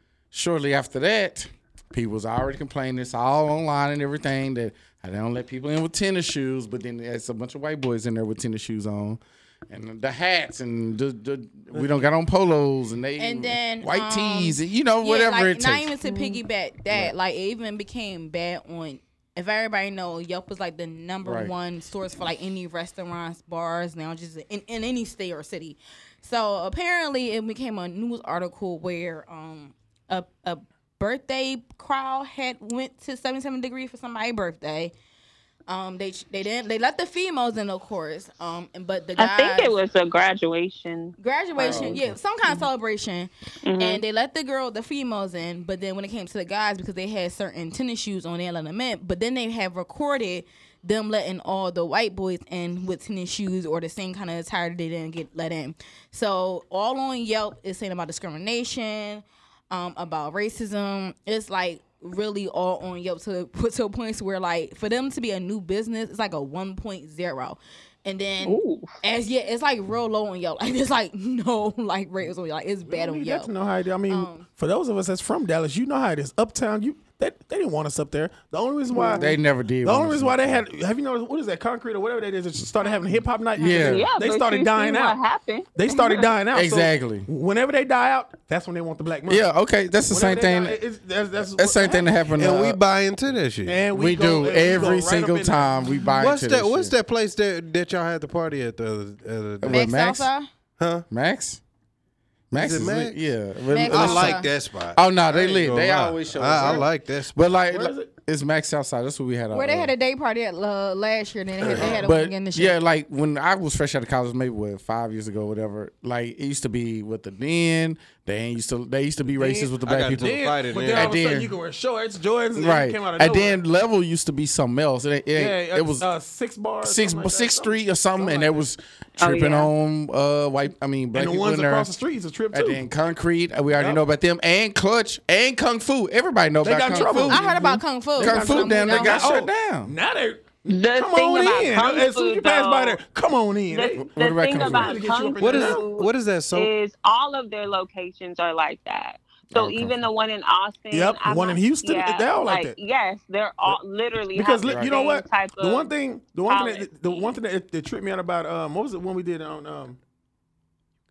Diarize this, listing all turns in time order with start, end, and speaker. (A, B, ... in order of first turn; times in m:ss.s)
0:00.3-0:15.9 A
0:13.2-0:34.9 B
0:16.0-0:16.4 C
0:21.2-0:21.5 A
0:35.7-0:39.7 B
0:39.2-0:41.9 C
0:41.2-1:13.5 B
0:41.6-0:42.1 A
0:43.6-0:44.0 C
1:08.4-1:08.9 C
1:12.8-1:19.3 D
1:14.1-1:14.5 B
1:18.9-1:19.2 B
1:19.2-1:20.6 A
1:19.8-1:25.2 D
1:23.6-1:24.1 A
1:23.8-1:26.3 C
1:25.8-1:29.4 D
1:26.5-1:27.3 A
1:29.3-1:30.8 A
1:30.1-1:32.1 D
1:31.5-1:32.8 A
1:32.3-1:33.8 E
1:33.6-1:35.7 D
1:33.9-1:36.9 A
1:36.2-1:39.8 E
1:39.6-1:40.3 A
1:39.7-1:40.5 B
1:40.8-1:41.0 E
1:41.1-1:41.6 A
1:42.5-1:49.9 A
1:42.5-1:43.2 E
1:43.7-1:44.5 B
1:43.8-1:47.5 E
1:47.7-1:48.1 D
1:49.5-1:52.8 B
1:51.6-1:52.0 E
1:51.7-1:52.0 D
1:51.8-2:01.5 A
1:59.4-2:01.2 E
2:00.1-2:03.6 D
2:02.5-2:06.0 A
2:05.3-2:08.6 D
2:06.8-2:11.9 A
2:09.2-2:09.7 C
2:11.1-2:12.8 D
2:12.5-2:17.4 A
2:13.7-2:14.0 D
2:16.6-2:25.8 D
2:17.1-2:19.3 B
2:18.2-2:19.9 A
2:20.6-2:23.0 C
2:23.7-2:35.9 C
2:24.0-2:25.0 A
2:25.4-2:26.7 E
2:29.5-2:30.0 A
2:30.9-2:32.7 D
2:34.3-2:40.0 D
2:34.6-2:34.9 A
2:36.5-2:37.3 C